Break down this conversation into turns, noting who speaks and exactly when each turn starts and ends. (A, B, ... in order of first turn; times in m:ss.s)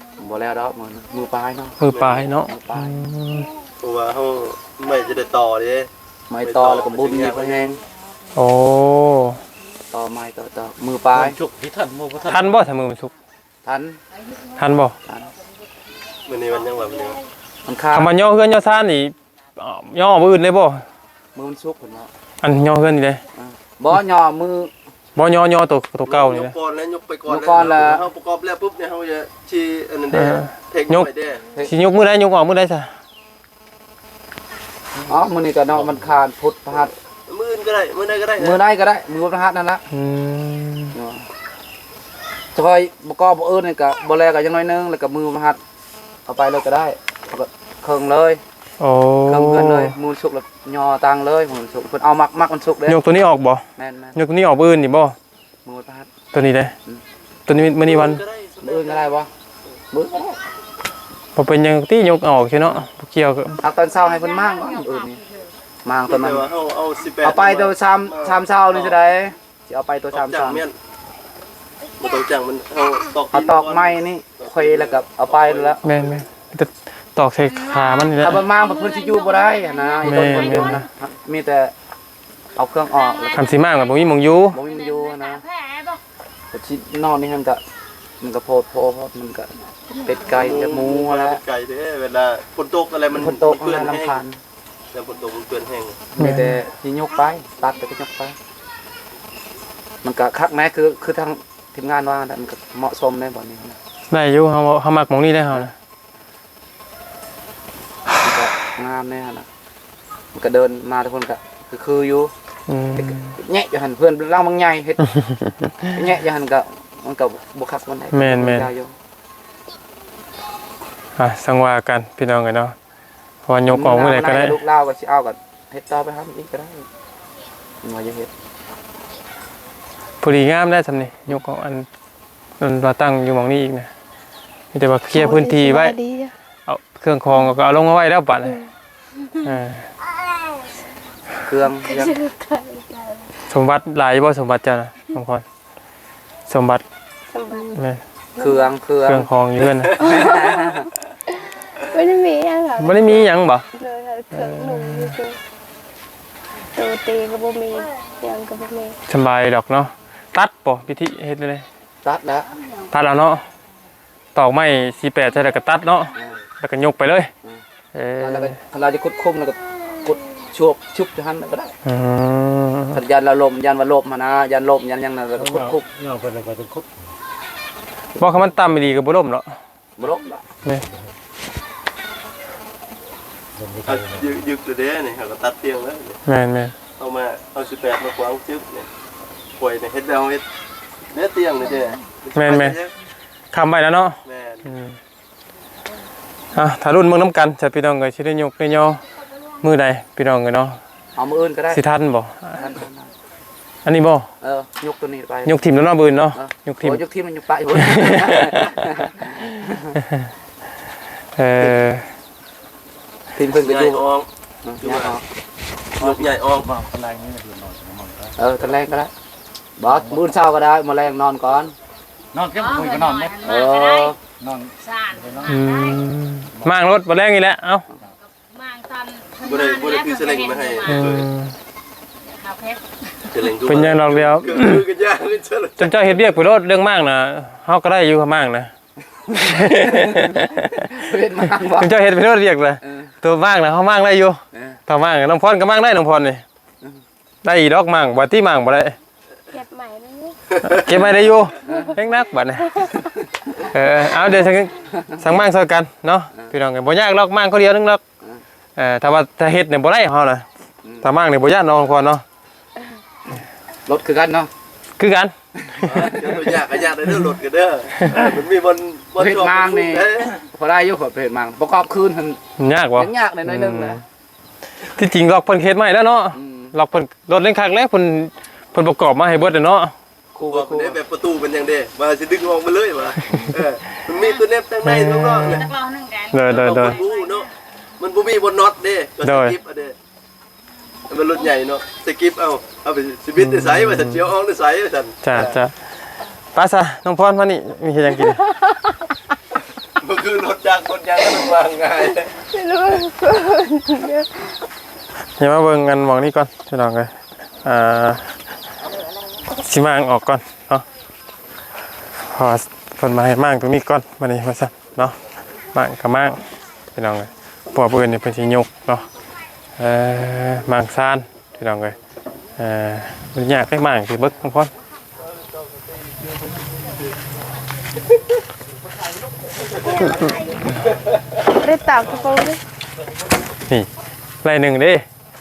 0:00.2-0:01.8 A
0:01.8-0:03.5 B
0:01.9-0:02.2 C
0:02.5-0:03.0 A
0:03.8-0:05.9 C
0:06.3-0:07.8 A
0:06.4-0:07.8 C
0:08.4-0:09.4 B
0:09.9-0:11.4 A
0:11.1-0:12.6 D
0:12.3-0:13.1 B
0:13.6-0:14.0 A
0:14.6-0:15.0 B
0:16.3-0:17.2 C
0:17.6-0:18.1 A
0:17.9-0:20.8 B
0:21.4-0:22.1 A
0:22.4-0:23.2 B
0:23.4-0:24.7 A
0:25.2-0:26.6 B
0:26.1-0:31.4 C
0:27.3-0:28.0 A
0:30.1-0:31.1 B
0:31.6-0:32.9 B
0:35.1-0:36.9 A
0:35.7-0:36.1 D
0:37.3-0:38.6 C
0:38.4-0:39.8 A
0:39.9-0:41.0 B
0:40.9-0:41.2 A
0:42.6-0:45.6 A
0:46.3-0:48.4 A
0:48.8-0:50.0 B
0:49.3-0:53.0 A
0:52.9-0:53.6 B
0:53.8-0:54.2 A
0:54.2-0:55.2 B
0:55.6-0:56.1 A
0:56.3-0:56.8 B
0:57.5-0:58.2 B
0:57.8-0:59.1 C
0:58.6-0:59.3 A
0:59.9-1:00.4 A
1:01.4-1:03.6 B
1:03.6-1:05.2 A
1:03.9-1:04.6 E
1:05.8-1:06.5 A
1:06.1-1:09.0 C
1:07.2-1:10.6 A
1:10.1-1:10.8 C
1:12.0-1:16.2 C
1:13.3-1:15.8 A
1:15.8-1:18.4 B
1:17.5-1:20.7 E
1:18.2-1:21.7 A
1:20.0-1:20.9 B
1:22.6-1:23.5 A
1:23.0-1:24.0 E
1:23.4-1:24.6 B
1:24.5-1:25.4 A
1:24.5-1:26.0 E
1:26.5-1:27.6 A
1:28.2-1:29.5 A
1:30.0-1:31.4 A
1:30.3-1:34.2 C
1:33.1-1:34.4 A
1:34.9-1:36.0 C
1:36.1-1:38.4 A
1:36.2-1:36.6 B
1:40.0-1:43.8 A
1:44.1-1:45.7 B
1:48.2-1:49.5 A
1:50.3-1:52.3 A
1:52.7-1:53.3 B
1:53.0-1:55.1 A
1:55.2-1:55.7 B
1:55.9-1:58.9 A
1:58.1-1:58.7 B
2:01.2-2:02.8 B
2:03.5-2:04.6 B
2:03.7-2:06.9 A
2:07.8-2:08.3 A
2:10.2-2:11.9 B
2:12.6-2:13.9 B
2:14.7-2:16.0 B
2:15.1-2:16.3 F
2:16.7-2:18.6 B
2:19.4-2:19.9 B
2:21.5-2:22.2 A
2:21.8-2:23.3 F
2:23.5-2:25.4 B
2:26.5-2:26.8 B
2:27.3-2:27.7 F
2:27.7-2:28.0 B
2:28.4-2:29.3 A
2:28.4-2:28.7 F
2:29.0-2:30.0 B
2:30.0-2:30.8 F
2:30.0-2:30.9 A
2:31.9-2:35.4 F
2:32.8-2:33.6 B
2:34.3-2:35.2 B
2:36.8-2:39.0 F
2:39.1-2:41.6 B
2:42.0-2:42.5 A
2:42.9-2:43.4 B
2:44.4-2:47.3 B
2:47.9-2:48.6 B
2:48.2-2:51.7 A
2:51.8-2:53.0 B
2:52.9-2:55.8 A
2:55.4-2:57.0 D
2:58.2-2:59.5 B
3:00.0-3:00.4 A
3:00.7-3:01.0 D
3:03.6-3:04.4 D
3:03.8-3:06.2 C
3:06.3-3:06.8 B
3:07.0-3:08.9 C
3:09.6-3:10.4 C
3:11.1-3:12.9 C
3:12.4-3:12.8 B
3:13.5-3:15.0 B
3:14.2-3:14.7 C
3:16.5-3:19.0 B
3:19.6-3:20.8 B
3:21.2-3:21.8 A
3:21.7-3:22.6 B
3:22.6-3:23.1 A
3:23.8-3:24.3 B
3:24.4-3:25.6 A
3:25.5-3:27.0 B
3:26.3-3:30.0 A
3:27.7-3:28.8 B
3:30.0-3:30.3 B
3:31.4-3:32.1 B
3:33.4-3:34.0 A
3:33.6-3:34.3 C
3:34.6-3:35.2 A
3:34.8-3:35.2 C
3:36.0-3:36.7 C
3:36.5-3:38.4 D
3:38.4-3:39.1 A
3:39.8-3:41.7 A
3:39.8-3:40.2 D
3:42.3-3:43.4 D
3:42.6-3:44.1 E
3:43.4-3:44.2 A
3:44.3-3:45.6 D
3:44.8-3:46.0 E
3:45.5-3:47.9 B
3:48.3-3:51.1 E
3:49.4-3:51.3 C
3:50.8-3:51.6 B
3:52.3-3:52.8 E
3:53.3-3:56.1 C
3:53.7-3:54.8 B
3:55.8-3:58.7 B
3:59.1-4:01.9 A
3:59.4-4:01.0 B
4:01.6-4:06.4 B
4:02.8-4:03.1 A
4:04.5-4:04.8 A
4:07.4-4:09.0 B
4:09.5-4:10.4 F
4:10.6-4:12.9 B
4:11.6-4:11.9 A
4:13.6-4:18.0 B
4:18.8-4:20.5 B
4:20.8-4:21.1 A
4:21.0-4:22.2 B
4:23.9-4:24.5 A
4:25.0-4:25.3 B
4:25.6-4:26.5 A
4:25.8-4:30.3 C
4:28.0-4:28.3 B
4:29.2-4:32.4 A
4:32.6-4:34.0 B
4:33.0-4:34.0 A
4:35.0-4:40.0 B
4:36.3-4:36.8 A
4:40.4-4:41.0 A
4:40.5-4:45.7 C
4:44.8-4:45.7 B
4:45.5-4:47.5 E
4:46.3-4:47.0 B
4:46.5-4:47.5 C
4:48.0-4:50.0 C
4:49.2-4:49.6 B
4:51.1-4:55.6 C
4:53.4-4:54.3 B
4:55.2-4:55.8 B
4:56.5-4:58.4 B
4:58.3-4:58.7 F
5:00.0-5:02.3 C
5:02.5-5:04.5 F
5:05.4-5:07.1 B
5:07.6-5:08.4 B
5:09.6-5:10.8 B
5:12.2-5:15.2 B
5:15.7-5:16.4 B
5:17.0-5:19.1 B
5:19.8-5:22.0 B
5:22.6-5:24.7 B
5:29.8-5:30.3 F
5:31.4-5:32.6 F
5:34.4-5:35.0 B